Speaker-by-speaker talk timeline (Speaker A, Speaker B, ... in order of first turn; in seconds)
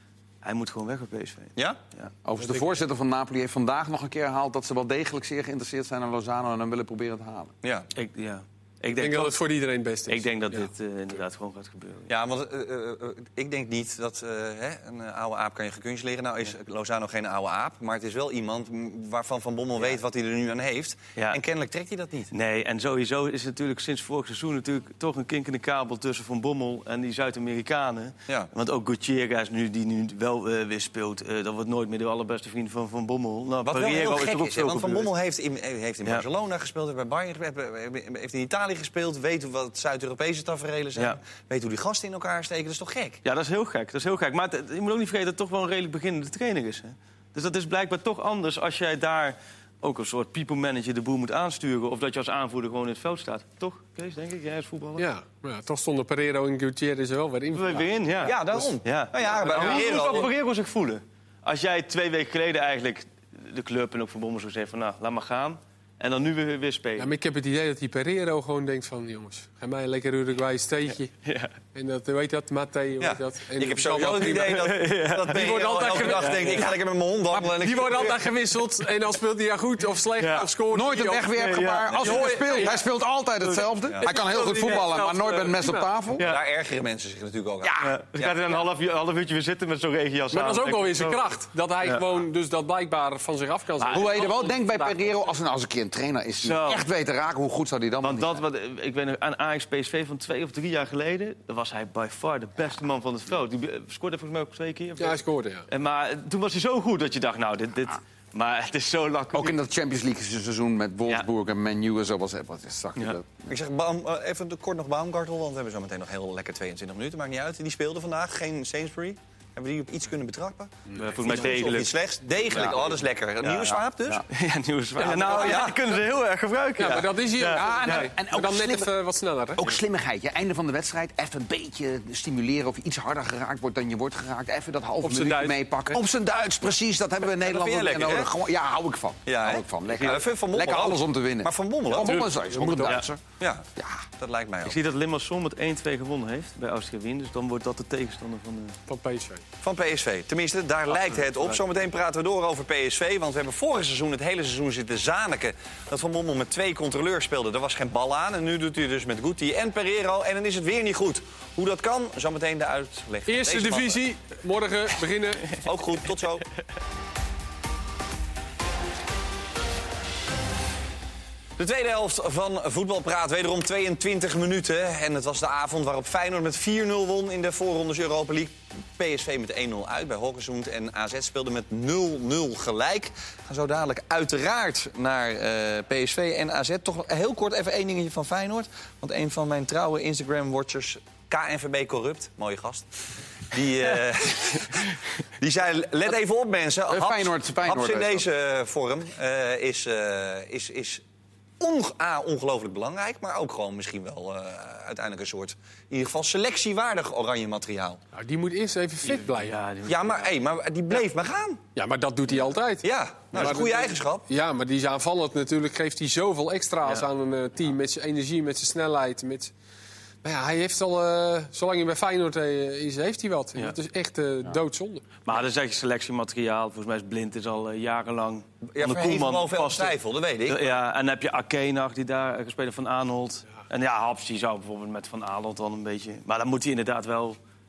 Speaker A: 0.4-2.1, 7.9-9.4, 10.1-12.1, 22.3-35.1, 43.2-55.1, 57.5-67.1, 71.2-71.5, 74.2-76.7, 80.2-80.5, 81.3-82.7, 84.5-85.5, 86.2-86.4, 87.8-92.0, 93.8-95.1, 96.4-96.8, 98.0-109.5, 121.0-121.9, 123.4-123.8, 124.3-128.1, 144.6-148.8, 150.9-151.6, 194.6-194.9, 209.1-210.3, 225.2-229.9, 230.5-237.4
Speaker B: 2.2-7.5, 80.7-86.2, 87.6-87.9, 93.9-98.4, 109.3-113.5, 122.5-122.9, 125.0-125.7, 127.5-128.9, 129.6-143.2, 143.8-144.0, 196.9-198.3
Speaker C: 7.6-7.9, 12.1-22.3, 33.7-43.2, 58.2-60.3, 73.0-78.2, 86.2-88.5, 113.5-124.2, 125.0-125.7, 137.4-138.3, 139.2-142.2, 143.4-143.6, 144.2-144.8, 149.6-164.0, 165.5-166.4, 171.6-192.9, 193.5-201.0, 201.6-208.0, 209.9-211.6, 212.8-214.2, 228.7-230.7
Speaker D: 8.9-10.7, 55.0-57.9, 59.6-60.0, 67.0-71.1, 71.7-74.7, 75.3-76.7, 77.3-82.8, 84.0-85.9, 90.3-94.2, 105.0-105.7, 120.9-121.6, 126.8-129.7, 135.0-135.6, 142.0-143.0, 148.9-149.4, 163.2-165.5, 208.1-209.6, 211.8-219.5, 220.2-225.0